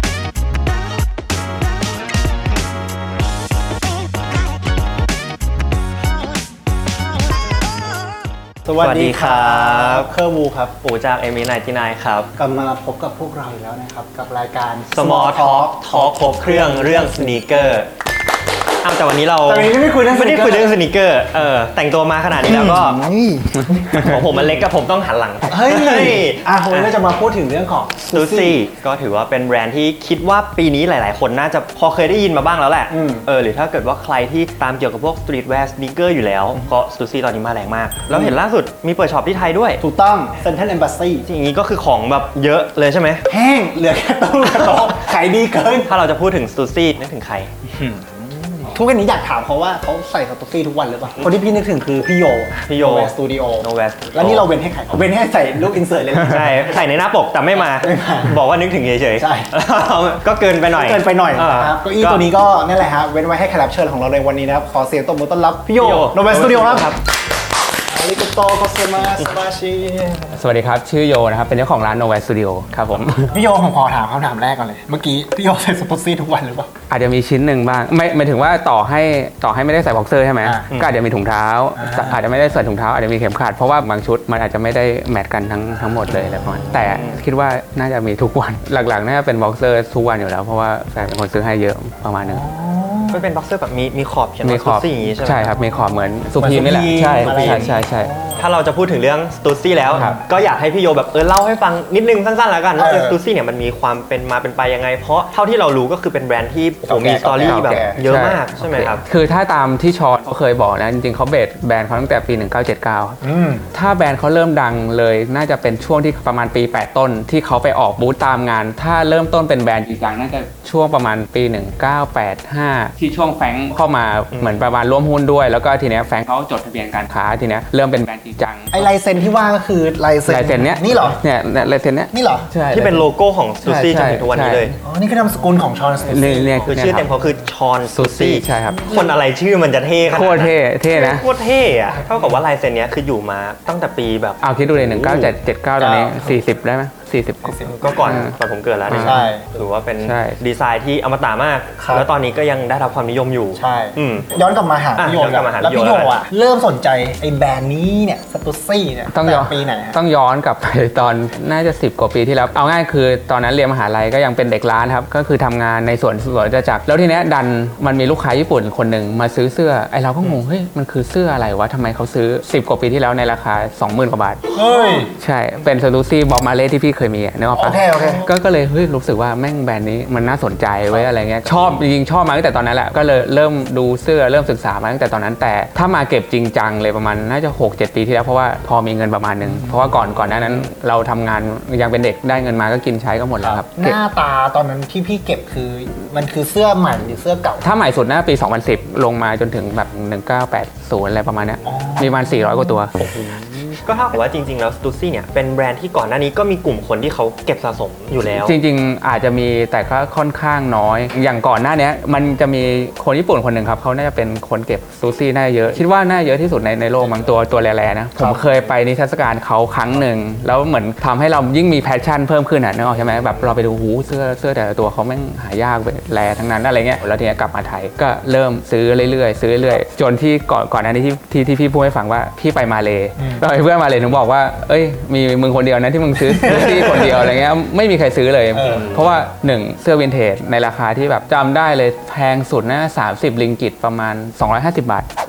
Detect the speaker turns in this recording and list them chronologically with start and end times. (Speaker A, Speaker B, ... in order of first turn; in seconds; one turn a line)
Speaker A: 8.6-10.7
Speaker B: 8.8-10.1
Speaker B: 10.8-12.3
Speaker A: 12.4-17.7
Speaker B: 14.9-17.9
Speaker B: 18.8-23.0
Speaker A: 19.4-20.8
Speaker A: 22.4-24.5
Speaker B: 23.9-27.0
Speaker A: 25.5-28.6
Speaker B: 28.1-39.8
Speaker A: 32.9-33.3
Speaker A: 38.1-38.4
Speaker A: 39.8-41.3
Speaker B: 41.2-43.2
Speaker A: 43.3-45.9
Speaker B: 45.9-47.5
Speaker A: 47.7-56.8
Speaker B: 52.7-54.5
Speaker B: 56.2-62.2
Speaker A: 57.5-58.4
Speaker A: 59.2-59.5
Speaker A: 60.7-67.0
Speaker B: 65.8-67.0
Speaker A: 67.9-70.4
Speaker C: 70.4-73.3
Speaker A: 73.2-76.7
Speaker C: 76.9-92.4
Speaker A: 80.4-80.7
Speaker A: 81.8-82.2
Speaker B: 86.1-87.2
Speaker A: 92.2-93.2
Speaker B: 93.1-95.5
Speaker C: 94.4-98.1
Speaker A: 96.3-98.5
Speaker B: 97.2-97.7
Speaker B: 98.4-109.0
Speaker A: 99.9-100.2
Speaker C: 99.9-100.2
Speaker A: 102.8-103.2
Speaker A: 106.8-108.0
Speaker C: 107.4-113.2
Speaker A: 113.2-113.7
Speaker C: 113.7-128.9
Speaker B: 124.3-124.6
Speaker A: 128.7-131.2
Speaker C: 130.2-133.1
Speaker A: 132.1-132.5
Speaker B: 132.7-134.8
Speaker C: 133.8-134.7
Speaker A: 134.8-136.7
Speaker C: 136.1-137.1
Speaker B: 136.6-145.3
Speaker C: 137.9-138.9
Speaker A: 138.8-139.1
Speaker C: 140.1-141.2
Speaker A: 141.9-142.4
Speaker C: 144.4-148.3
Speaker A: 145.8-146.4
Speaker A: 147.4-148.2
Speaker B: 147.8-154.3
Speaker C: 148.9-149.3
Speaker A: 149.0-149.5
Speaker C: 150.0-150.4
Speaker A: 151.8-152.1
Speaker A: 153.6-160.0
Speaker B: 154.9-156.2
Speaker C: 159.1-174.4
Speaker A: 174.5-175.1
Speaker C: 175.1-194.0
Speaker A: 177.5-178.3
Speaker A: 189.6-190.2
Speaker A: 193.4-197.7
Speaker C: 197.6-203.0
Speaker A: 201.6-202.4
Speaker A: 203.0-203.8
Speaker B: 203.8-208.5
Speaker C: 208.2-245.1
Speaker A: 218.2-218.4
Speaker A: 233.2-233.4
Speaker A: 236.3-237.4
Speaker B: 236.7-237.1
Speaker A: 238.5-238.9
Speaker B: 238.6-239.2